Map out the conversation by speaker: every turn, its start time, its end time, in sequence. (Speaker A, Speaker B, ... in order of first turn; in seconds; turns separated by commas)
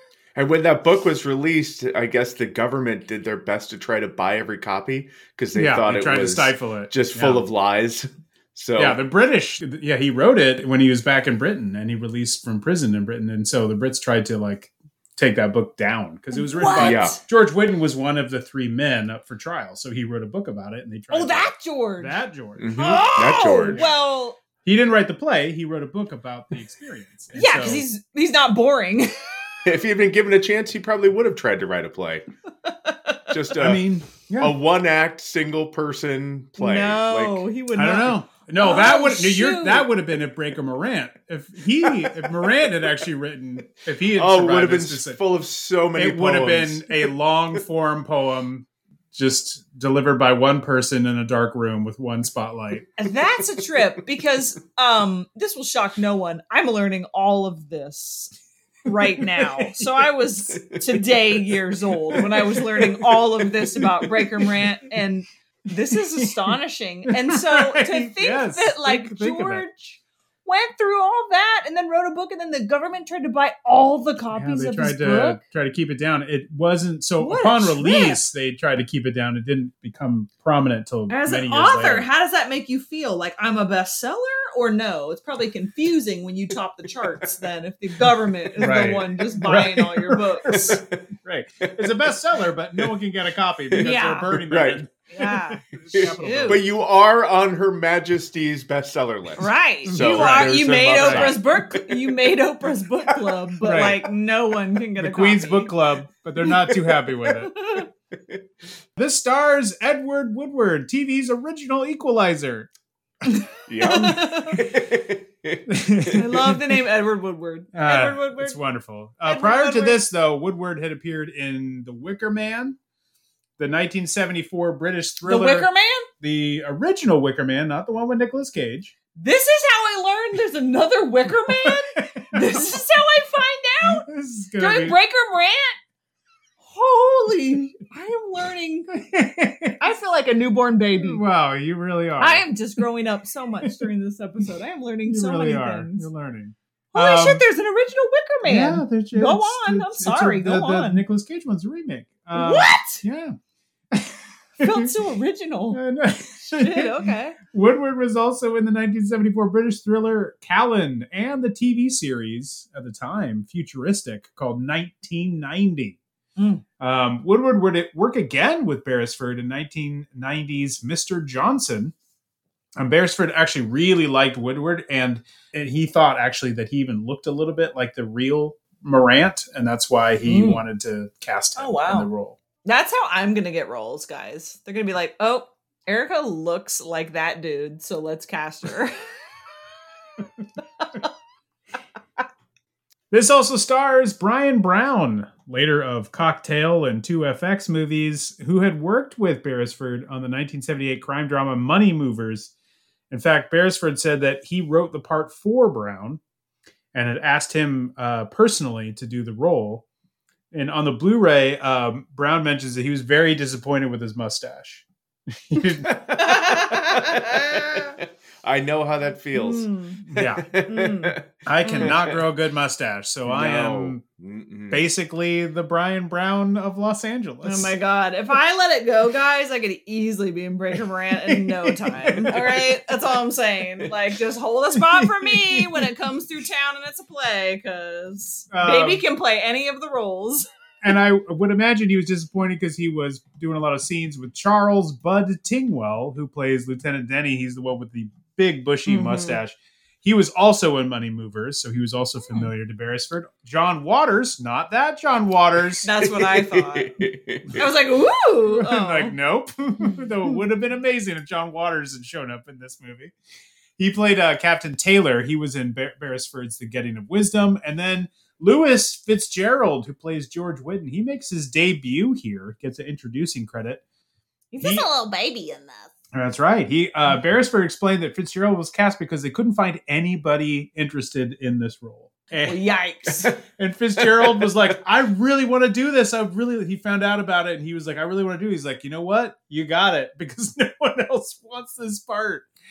Speaker A: 0.3-9.0, Speaker B: 5.5-7.4, Speaker B: 8.8-23.0, Speaker C: 16.3-17.1, Speaker A: 16.8-17.2, Speaker C: 21.1-22.1, Speaker A: 22.6-23.8, Speaker C: 22.7-24.4, Speaker B: 24.6-27.9, Speaker C: 27.3-29.1, Speaker A: 29.6-32.2, Speaker C: 32.9-33.1, Speaker A: 33.3-33.8, Speaker B: 33.5-34.5, Speaker A: 34.4-37.5, Speaker C: 36.6-39.9, Speaker B: 37.8-45.2, Speaker A: 44.1-47.1, Speaker B: 45.9-52.9, Speaker C: 53.0-58.3, Speaker C: 58.9-75.4, Speaker A: 60.7-61.2, Speaker B: 65.9-66.5, Speaker B: 67.1-69.7, Speaker B: 74.3-82.1, Speaker C: 77.2-78.2, Speaker C: 81.1-90.5, Speaker A: 88.6-89.0, Speaker B: 88.6-96.7, Speaker A: 90.5-90.8, Speaker A: 93.7-94.8, Speaker C: 93.8-94.3, Speaker C: 95.1-95.6, Speaker A: 95.9-102.1, Speaker C: 96.2-96.6, Speaker C: 99.4-105.8, Speaker B: 99.8-101.4, Speaker A: 103.1-103.4, Speaker B: 103.6-104.1, Speaker B: 105.0-107.5, Speaker C: 107.5-107.9, Speaker B: 109.0-112.7, Speaker C: 113.3-114.6, Speaker A: 113.7-115.6, Speaker B: 115.7-116.8, Speaker C: 116.1-118.6, Speaker B: 117.7-122.8, Speaker C: 119.2-120.0, Speaker B: 123.6-128.9, Speaker C: 125.3-126.1, Speaker C: 129.2-134.1, Speaker B: 131.5-132.8, Speaker B: 133.8-135.0, Speaker C: 134.6-135.8, Speaker C: 136.7-138.9, Speaker B: 138.9-139.8, Speaker C: 139.8-141.2, Speaker B: 141.0-142.5, Speaker C: 142.2-146.1, Speaker B: 145.1-147.4, Speaker C: 146.9-151.0, Speaker B: 148.5-153.3, Speaker C: 152.3-153.0, Speaker B: 153.9-154.9, Speaker C: 154.6-155.8, Speaker B: 155.7-166.0, Speaker C: 156.6-157.4, Speaker C: 166.4-166.6, Speaker B: 166.8-171.9, Speaker B: 172.8-182.4, Speaker C: 180.3-180.6, Speaker C: 181.6-182.1, Speaker C: 182.7-188.9, Speaker B: 193.1-202.5, Speaker B: 203.1-206.2, Speaker B: 206.9-209.8, Speaker B: 210.5-214.8, Speaker B: 215.5-216.0, Speaker A: 215.9-222.2, Speaker C: 216.2-217.2, Speaker C: 219.3-220.0, Speaker B: 220.1-220.5, Speaker C: 220.7-221.9, Speaker B: 221.5-224.0, Speaker A: 223.2-224.8, Speaker B: 224.7-227.7, Speaker C: 227.4-240.5, Speaker B: 231.3-232.7, Speaker B: 234.8-235.8, Speaker B: 238.5-239.0, Speaker B: 240.8-255.9, Speaker C: 248.9-249.4, Speaker C: 255.8-256.9, Speaker A: 256.0-257.6, Speaker C: 257.5-259.1, Speaker B: 258.5-263.1, Speaker B: 263.8-273.8, Speaker C: 274.5-275.9, Speaker B: 276.1-282.6, Speaker C: 282.4-283.3, Speaker B: 283.6-292.4, Speaker A: 284.0-284.8